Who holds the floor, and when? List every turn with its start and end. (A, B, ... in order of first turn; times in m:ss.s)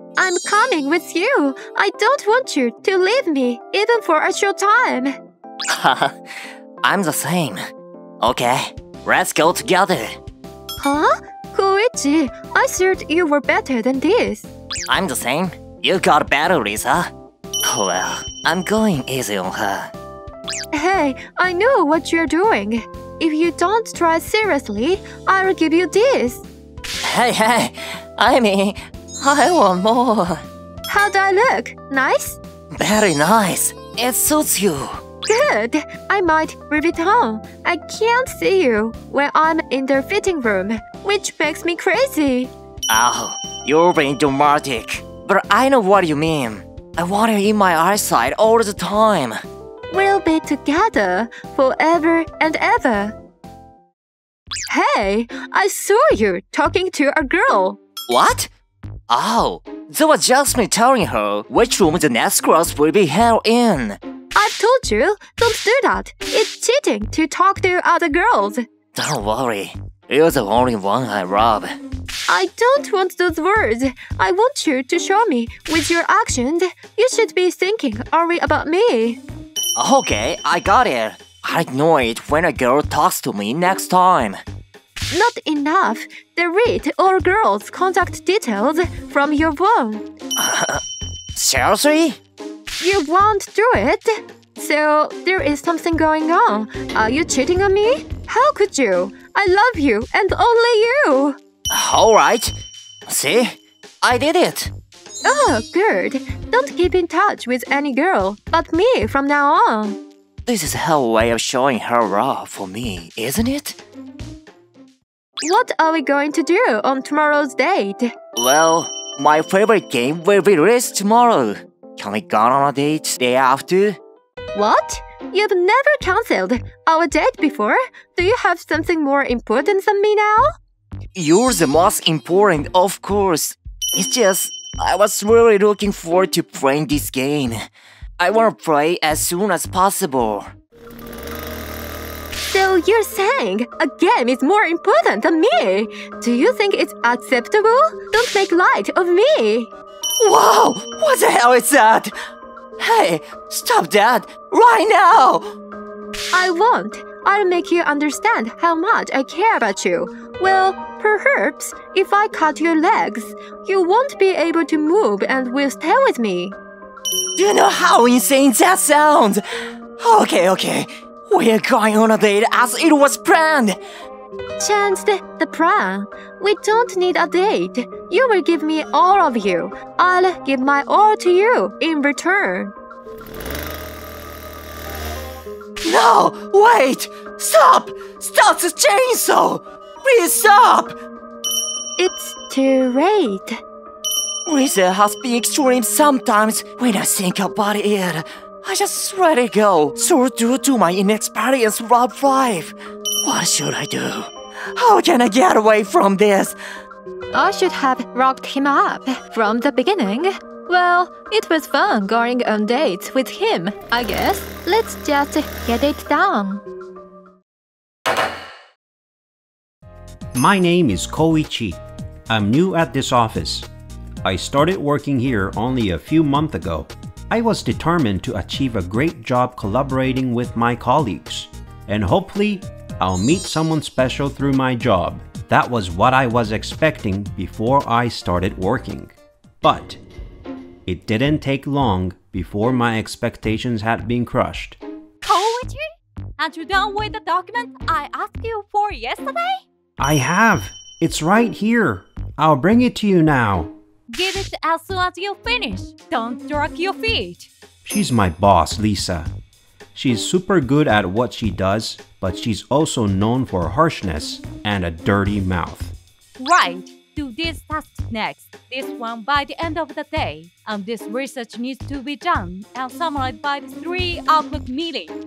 0:00.2-0:05.1 A
0:05.7-0:06.1 B
0:06.8-0:07.6 B
0:08.2-0:10.2 B
0:10.8-0:14.5 A
0:14.9-0:17.1 B
0:17.6-0:19.9 B
0:20.7-0:26.4 A
0:27.0-0:30.4 B
0:30.9-0:32.4 A
0:32.8-0:34.9 B
0:35.3-0:42.5 A
0:42.9-0:49.4 B
0:49.9-0:53.1 A
0:54.7-0:57.8 A
0:58.1-0:58.5 B
0:59.1-1:04.0 B
1:04.4-1:08.6 A
1:09.0-1:11.8 B
1:12.3-1:19.2 A
1:19.8-1:24.4 B
1:25.1-1:30.0 A
1:30.4-1:30.8 B
1:31.4-1:32.2 B
1:32.8-1:41.4 A
1:41.7-1:42.6 B
1:43.1-1:44.7 B
1:45.2-1:50.0 A
1:50.5-1:53.8 B
1:55.4-1:58.1 A
1:58.4-2:04.0 B
2:04.6-2:10.5 A
2:11.2-2:17.6 B
2:18.2-2:20.5 B
2:22.5-2:29.7 A
2:30.2-2:32.1 B
2:32.8-2:35.4 B
2:36.3-2:46.6 A
2:47.4-2:49.4 B
2:50.0-2:53.8 B
2:54.6-3:02.7 A
3:05.8-3:11.0 B
3:12.0-3:13.6 A
3:14.5-3:26.6 B
3:27.3-3:36.6 A
3:40.3-3:43.7 C
3:44.2-4:00.0 C
4:00.9-4:04.8 C
4:05.2-4:05.8 D
4:06.4-4:09.6 D
4:10.0-4:13.7 C
4:14.1-4:17.5 D
4:17.8-4:19.3 C
4:20.0-4:26.0 C
4:26.4-4:35.2 D